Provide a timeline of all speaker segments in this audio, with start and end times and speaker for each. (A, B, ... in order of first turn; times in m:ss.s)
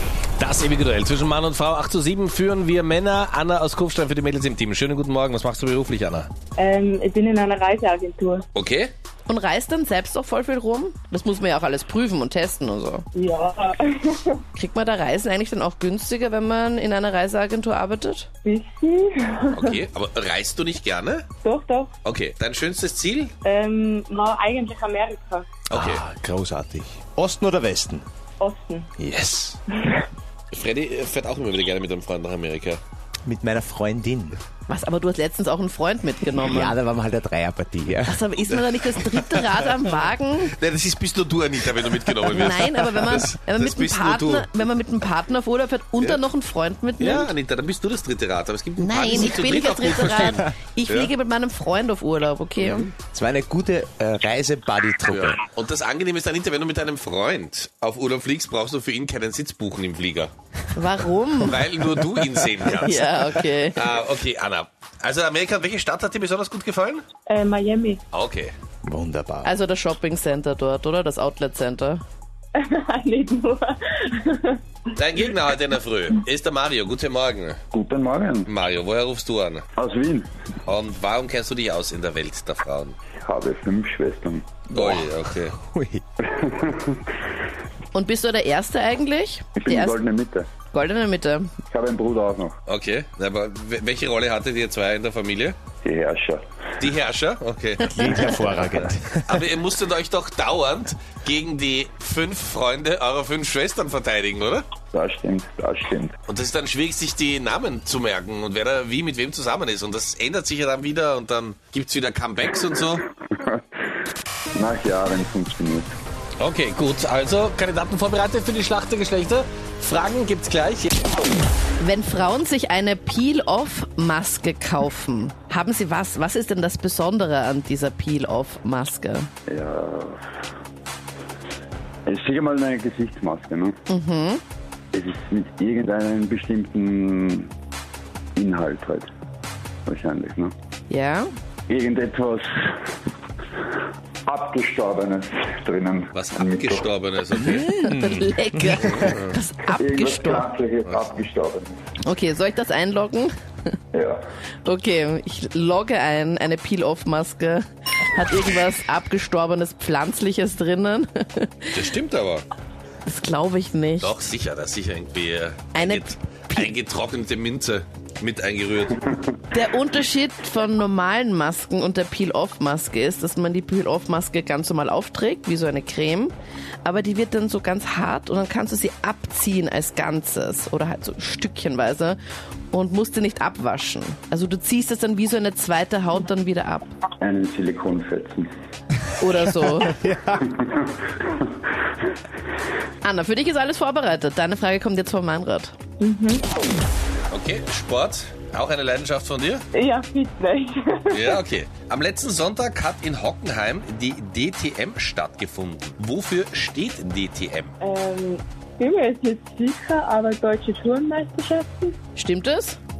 0:00.4-0:06.3 A
0:06.6-0:08.4 B
0:08.5-0:08.9 A
0:09.3-0:13.0 C
0:13.1-0:14.4 B
0:14.5-0:18.3 C
0:18.4-0:19.7 B
0:19.5-0:21.2 A
0:21.4-0:21.9 B
0:22.0-0:23.3 A
0:23.4-0:25.6 B
0:25.7-0:26.0 A
0:25.7-0:28.0 D
0:28.4-0:28.9 B
0:29.0-0:29.6 D
0:29.8-0:30.0 B
0:30.5-0:32.8 A
0:33.2-0:34.4 D
0:34.7-0:36.8 C
0:36.4-0:38.2 D
0:38.0-0:40.5 C
0:38.5-0:39.8 A
0:40.4-0:44.6 A
0:42.3-0:47.3 C
0:47.0-0:51.1 A
0:48.8-0:52.9 C
0:52.6-0:55.4 D
0:55.1-1:00.3 A
1:00.7-1:01.6 C
1:01.4-1:07.0 A
1:02.7-1:03.8 C
1:07.2-1:08.0 B
1:08.1-1:08.5 A
1:08.8-1:09.5 D
1:09.4-1:12.0 C
1:12.5-1:14.6 B
1:14.9-1:17.6 A
1:17.7-1:18.5 E
1:18.4-1:19.6 A
1:19.8-1:20.3 E
1:20.6-1:23.0 A
1:23.2-1:24.5 E
1:24.7-1:25.6 A
1:24.7-1:26.0 D
1:26.2-1:27.0 E
1:27.9-1:30.0 C
1:29.6-1:30.5 E
1:30.7-1:31.5 C
1:31.7-1:32.6 E
1:32.7-1:35.6 A
1:35.8-1:36.4 E
1:36.8-1:38.4 A
1:37.8-1:39.4 D
1:39.2-1:44.7 A
1:44.9-1:46.1 E
1:46.3-1:53.1 A
1:53.3-1:53.6 E
1:54.5-1:55.9 E
1:56.4-2:01.0 A
2:01.8-2:09.3 C
2:09.5-2:10.2 E
2:12.0-2:13.8 E
2:13.9-2:14.4 C
2:14.9-2:17.5 E
2:18.4-2:19.1 E
2:19.8-2:20.5 E
2:20.9-2:21.3 C
2:21.7-2:22.7 E
2:24.2-2:26.9 E
2:26.1-2:27.8 A
2:27.5-2:29.0 D
2:27.6-2:30.5 C
2:28.8-2:29.4 A
2:29.8-2:31.7 E
2:32.0-2:33.3 C
2:33.9-2:34.2 E
2:34.6-2:41.8 C
2:41.7-2:42.4 A
2:43.0-2:44.2 C
2:44.0-2:49.1 A
2:45.7-2:46.7 C
2:49.5-2:56.3 C
2:56.8-3:02.2 C
3:02.7-3:06.9 C
3:07.2-3:08.5 E
3:09.2-3:10.0 C
3:09.8-3:10.4 D
3:10.3-3:11.4 E
3:13.0-3:15.7 C
3:16.0-3:16.5 B
3:17.3-3:19.6 A
3:19.7-3:21.4 B
3:21.1-3:27.7 A
3:27.8-3:32.0 B
3:32.2-3:32.8 C